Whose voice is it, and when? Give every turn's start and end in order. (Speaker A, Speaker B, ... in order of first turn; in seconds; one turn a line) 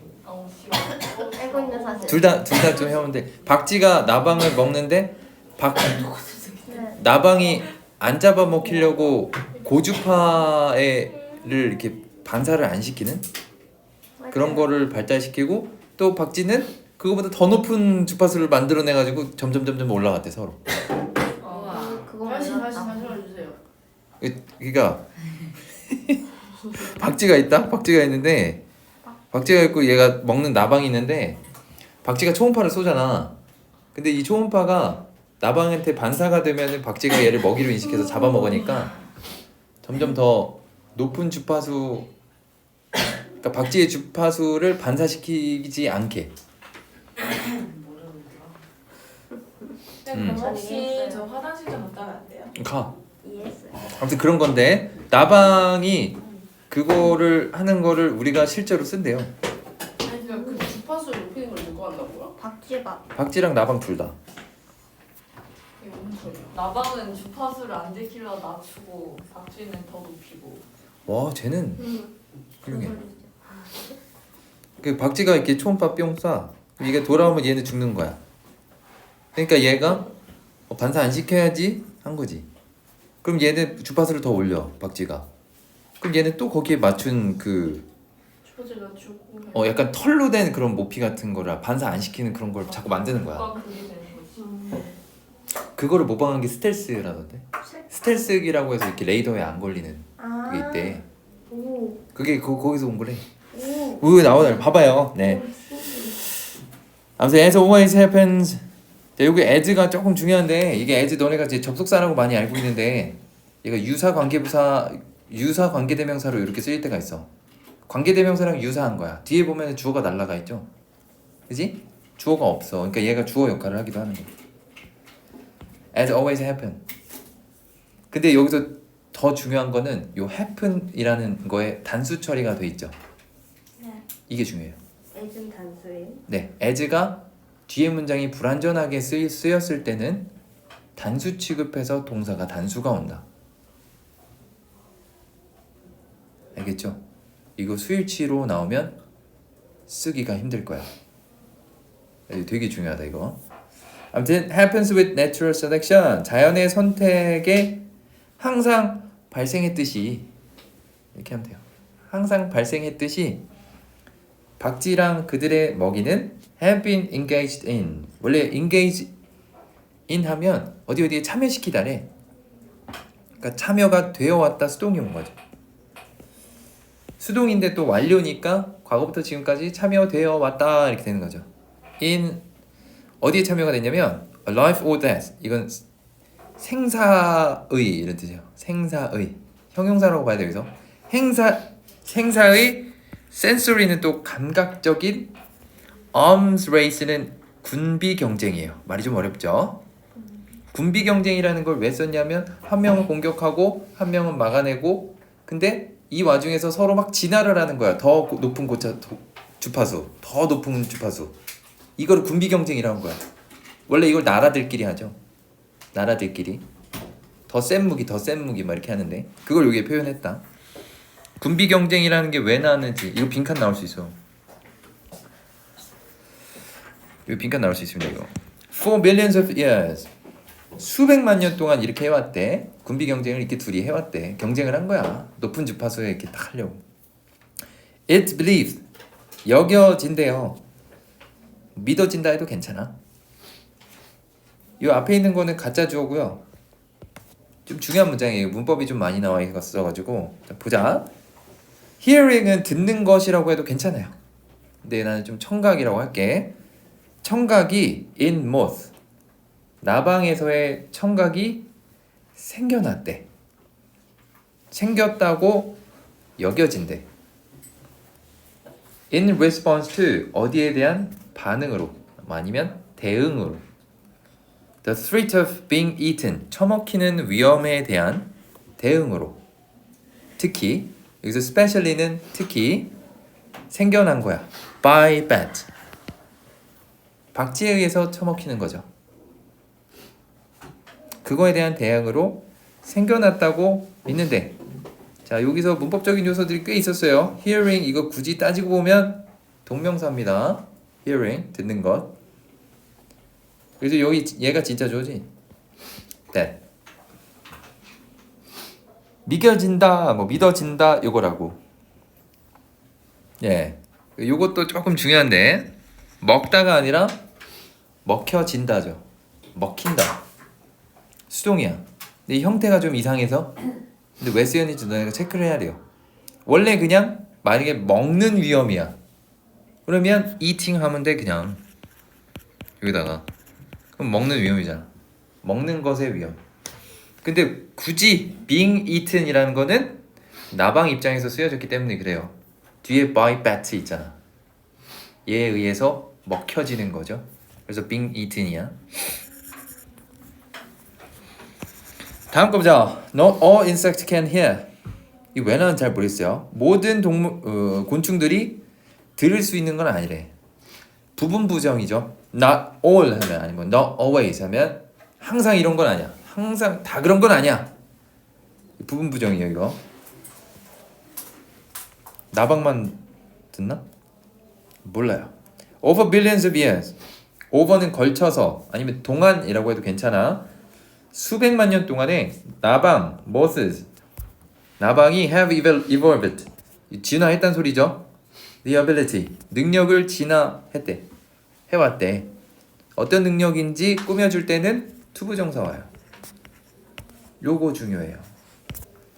Speaker A: 0.2-2.2
Speaker B: 1.1-2.5
Speaker C: 2.1-6.2
Speaker B: 6.7-7.0
Speaker C: 6.9-13.2
Speaker B: 14.2-14.7
Speaker C: 14.3-20.6
Speaker A: 21.4-22.1
Speaker B: 21.4-23.1
Speaker D: 21.4-23.6
Speaker C: 24.2-28.6
Speaker C: 29.3-31.4
Speaker C: 32.0-33.3
Speaker C: 33.9-39.0
Speaker C: 39.8-42.1
Speaker C: 43.4-46.3
Speaker D: 50.0-52.5
Speaker C: 50.1-50.5
Speaker B: 50.3-51.3
Speaker C: 52.5-53.0
Speaker B: 53.2-53.9
Speaker C: 53.9-59.3
Speaker D: 60.0-62.3
Speaker B: 60.3-60.7
Speaker B: 62.4-63.0
Speaker C: 63.1-64.2
Speaker D: 65.8-66.5
Speaker A: 66.5-70.6
Speaker C: 71.0-71.9
Speaker B: 71.8-72.1
Speaker C: 72.6-73.0
Speaker B: 72.6-73.9
Speaker C: 74.8-78.2
Speaker C: 79.3-80.1
Speaker C: 80.7-82.5
Speaker C: 83.2-85.3
Speaker C: 86.0-87.8
Speaker D: 88.4-89.8
Speaker C: 89.5-93.5
Speaker A: 92.7-94.5
Speaker B: 94.4-94.9
Speaker C: 95.8-101.0
Speaker B: 100.2-102.0
Speaker C: 102.1-103.2
Speaker B: 103.5-104.3
Speaker C: 104.0-105.5
Speaker B: 105.2-106.2
Speaker C: 107.2-108.6
Speaker C: 109.2-117.3
Speaker C: 117.9-120.7
Speaker C: 121.5-124.3
Speaker C: 125.9-126.8
Speaker C: 128.1-132.9
Speaker B: 133.8-134.0
Speaker C: 134.3-134.8
Speaker B: 135.1-136.2
Speaker C: 136.3-140.3
Speaker C: 140.9-143.2
Speaker C: 146.5-147.0
Speaker C: 147.6-148.9
Speaker C: 149.9-150.9
Speaker C: 152.3-153.4
Speaker C: 154.1-157.8
Speaker C: 158.4-160.3
Speaker C: 161.2-163.4
Speaker C: 164.6-169.1
Speaker C: 170.1-172.1
Speaker C: 173.4-175.3
Speaker C: 177.2-181.5
Speaker C: 182.0-182.4
Speaker C: 183.2-185.8
Speaker C: 186.6-195.3
Speaker C: 196.1-199.8
Speaker C: 200.7-211.3
Speaker C: 212.0-213.2
Speaker C: 213.9-215.2
Speaker C: 215.9-216.6
Speaker C: 217.5-220.4
Speaker C: 221.4-224.2
Speaker C: 227.2-230.1
Speaker C: 230.8-236.8
Speaker C: 238.1-238.8
Speaker C: 239.4-240.6
Speaker C: 241.8-242.9
Speaker C: 244.8-246.4
Speaker C: 247.7-251.1
Speaker C: 252.0-254.1
Speaker C: 254.8-256.5
Speaker C: 257.2-258.9
Speaker C: 259.8-261.7
Speaker C: 262.4-263.3
Speaker C: 264.7-265.8
Speaker C: 266.4-267.1
Speaker C: 269.1-273.6
Speaker C: 274.8-279.4
Speaker C: 280.4-282.9
Speaker C: 283.7-285.7
Speaker C: 287.3-288.9
Speaker C: 291.2-294.6
Speaker C: 295.2-302.1
Speaker C: 303.8-305.3
Speaker C: 306.3-306.6
Speaker C: 309.2-311.6
Speaker C: 313.4-317.2
Speaker C: 318.0-319.0
Speaker C: 319.6-320.2
Speaker C: 321.3-323.5
Speaker C: 324.2-325.8
Speaker C: 326.5-329.0
Speaker C: 329.9-331.6
Speaker C: 332.8-333.3
Speaker C: 334.0-334.9
Speaker C: 335.4-336.4
Speaker C: 337.2-340.0
Speaker C: 340.5-344.2
Speaker C: 345.3-348.8
Speaker C: 352.3-354.7
Speaker C: 355.3-358.6
Speaker C: 359.2-360.3
Speaker C: 361.2-367.7
Speaker C: 368.8-369.8
Speaker C: 372.3-373.0
Speaker C: 373.5-373.8
Speaker C: 374.8-376.9
Speaker C: 377.5-380.5
Speaker C: 381.1-383.9
Speaker C: 384.8-388.1
Speaker C: 388.6-391.1
Speaker C: 391.7-392.3
Speaker C: 393.0-395.9
Speaker C: 397.4-398.3